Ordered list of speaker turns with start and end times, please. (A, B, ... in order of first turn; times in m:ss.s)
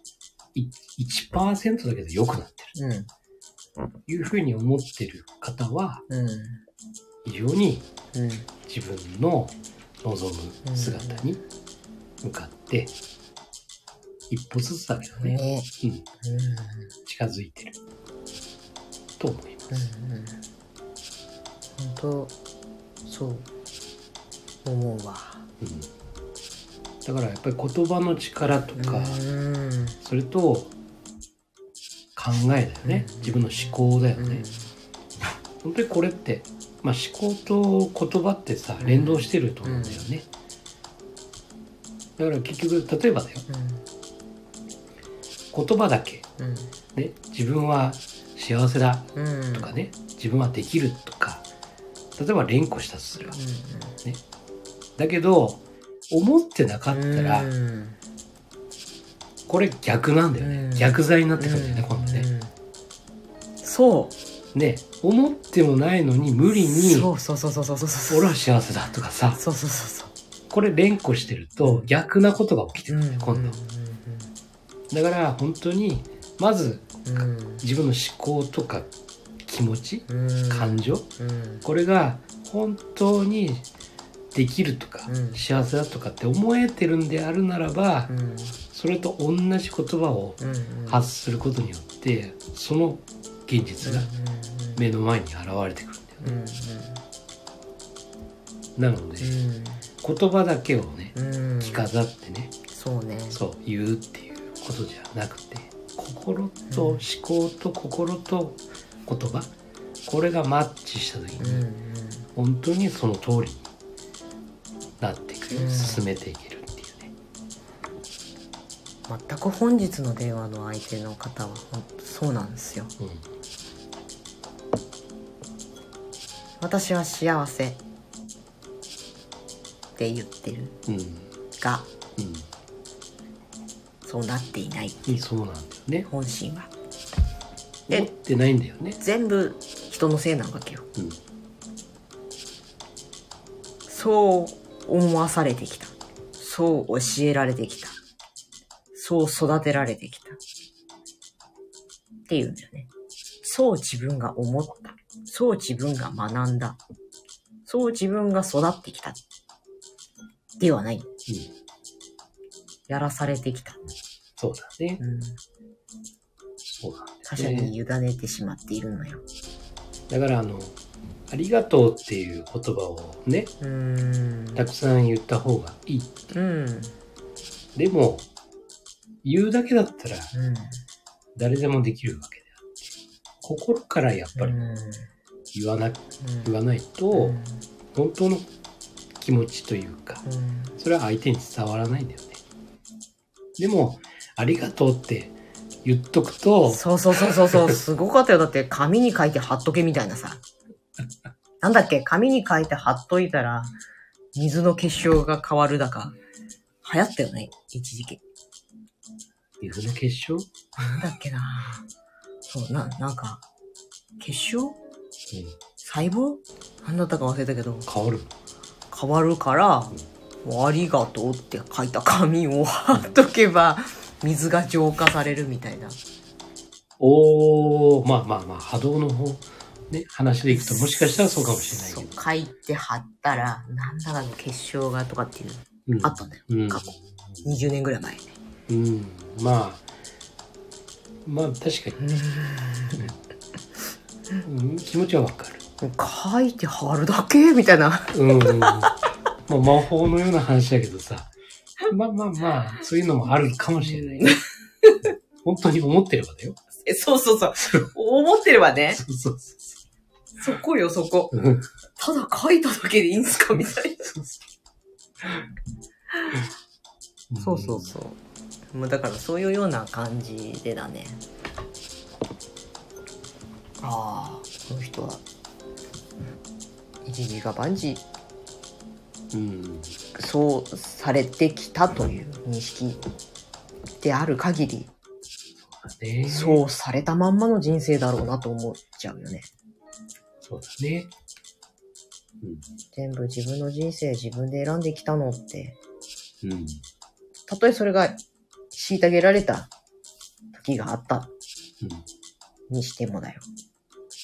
0:00.5-0:02.8 A
0:02.8-0:03.1 B
0:04.1-0:06.0 A
0:06.1-0:06.6 B
0:07.2-0:07.9 A
0:08.1-0:08.5 B
0:08.7-0:11.4 A
0:10.6-0:11.3 B
0:12.2-0:12.9 A
0:14.3-0:16.0 A
0:15.2-0:15.7 B
0:16.2-0:16.9 B
0:17.1-0:17.8 A
0:19.2-0:19.9 A
0:19.7-0:20.4 B
0:21.8-0:22.4 B
0:23.1-0:23.5 B
0:24.6-0:25.4 B
0:25.6-0:25.9 A
0:27.0-0:29.2 A
0:28.8-0:30.0 B
0:30.0-0:30.7 A
0:32.2-0:34.5 A
0:32.8-0:34.7 B
0:35.6-0:40.3 A
0:38.8-0:40.0 B
0:42.2-0:43.5 A
0:43.5-0:43.8 B
0:45.5-0:46.3 A
0:46.4-0:46.7 B
0:47.0-0:51.5 A
0:49.2-0:49.7 B
0:52.2-0:53.4 A
0:53.3-0:54.0 B
0:55.0-0:57.5 A
0:56.9-0:58.0 B
0:59.5-1:02.3 A
1:00.4-1:02.5 B
1:03.6-1:04.2 B
1:04.5-1:07.1 A
1:06.6-1:08.4 B
1:08.1-1:09.4 A
1:09.4-1:10.1 B
1:10.5-1:13.6 A
1:11.6-1:11.9 B
1:12.9-1:14.3 B
1:14.9-1:18.9 A
1:17.0-1:17.6 B
1:19.4-1:21.1 A
1:20.1-1:21.6 B
1:21.6-1:23.7 A
1:24.3-1:28.1 A
1:25.1-1:25.4 B
1:28.1-1:28.6 B
1:28.7-1:34.1 A
1:30.4-1:31.0 B
1:33.8-1:34.8 B
1:34.8-1:36.4 A
1:36.2-1:37.0 B
1:38.8-1:39.4 A
1:39.2-1:39.9 B
1:40.0-1:42.6 A
1:41.2-1:41.8 B
1:42.7-1:43.4 B
1:43.3-1:49.5 A
1:46.7-1:47.0 B
1:50.0-1:51.7 A
1:51.4-1:52.3 B
1:52.4-1:53.7 A
1:55.0-1:57.1 A
1:55.5-1:56.0 B
1:59.1-2:02.9 B
2:03.0-2:03.3 A
2:06.6-2:07.8 B
2:10.0-2:10.8 B
2:10.9-2:11.3 A
2:11.6-2:11.9 B
2:12.2-2:12.5 A
2:14.0-2:15.2 B
2:15.1-2:16.1 A
2:16.0-2:16.7 B
2:17.9-2:19.0 A
2:19.0-2:20.9 B
2:23.9-2:28.0 B
2:28.9-2:30.4 B
2:32.3-2:32.9 B
2:33.4-2:36.8 B
2:37.7-2:39.2 B
2:40.6-2:41.1 B
2:41.3-2:41.5 A
2:42.9-2:43.8 B
2:44.4-2:45.0 A
2:45.0-2:45.4 B
2:46.6-2:47.7 A
2:47.3-2:49.2 B
2:50.1-2:50.8 A
2:51.3-2:53.5 A
2:53.6-2:54.6 B
2:54.6-2:56.3 A
2:56.3-2:57.0 B
2:57.8-2:58.3 A
2:59.2-3:00.3 A
3:00.3-3:00.8 B
3:01.4-3:04.6 A
3:04.4-3:05.1 B
3:05.5-3:07.4 A
3:06.2-3:06.6 B
3:07.1-3:07.6 B
3:07.9-3:08.5 A
3:09.2-3:10.2 A
3:10.2-3:10.8 B
3:10.8-3:12.4 A
3:13.6-3:17.8 A
3:16.7-3:20.4 B
3:21.6-3:23.7 B
3:24.4-3:26.2 B
3:26.8-3:28.2 B
3:29.6-3:30.5 A
3:30.8-3:31.9 B
3:32.5-3:33.4 B
3:34.2-3:34.8 B
3:35.3-3:35.6 A
3:35.8-3:37.9 B
3:37.9-3:38.3 A
3:38.9-3:46.0 B
3:47.0-3:52.2 A
3:50.5-3:58.3 B
3:55.9-3:57.4 A
3:58.7-3:59.8 A
4:01.2-4:02.0 A
4:02.0-4:03.1 B
4:04.4-4:05.6 A
4:05.8-4:08.9 B
4:08.1-4:08.9 A
4:09.5-4:11.3 A
4:11.9-4:14.4 A
4:13.8-4:15.1 B
4:15.4-4:16.6 A
4:16.8-4:19.0 B
4:18.9-4:19.8 A
4:20.4-4:21.3 B
4:21.3-4:21.7 A
4:22.0-4:24.1 B
4:24.0-4:24.4 A
4:27.3-4:28.0 A
4:27.4-4:28.2 B
4:28.7-4:31.2 B
4:33.8-4:35.2 B
4:37.0-4:38.0 B
4:39.3-4:40.0 A
4:40.2-4:43.0 B
4:44.0-4:44.9 B
4:45.6-4:46.6 A
4:46.3-4:49.5 B
4:50.4-4:51.1 A
4:52.9-4:55.8 B
4:56.4-4:56.8 A
4:57.5-4:58.2 B
4:58.7-4:59.7 B
5:00.5-5:01.3 B
5:02.7-5:03.5 B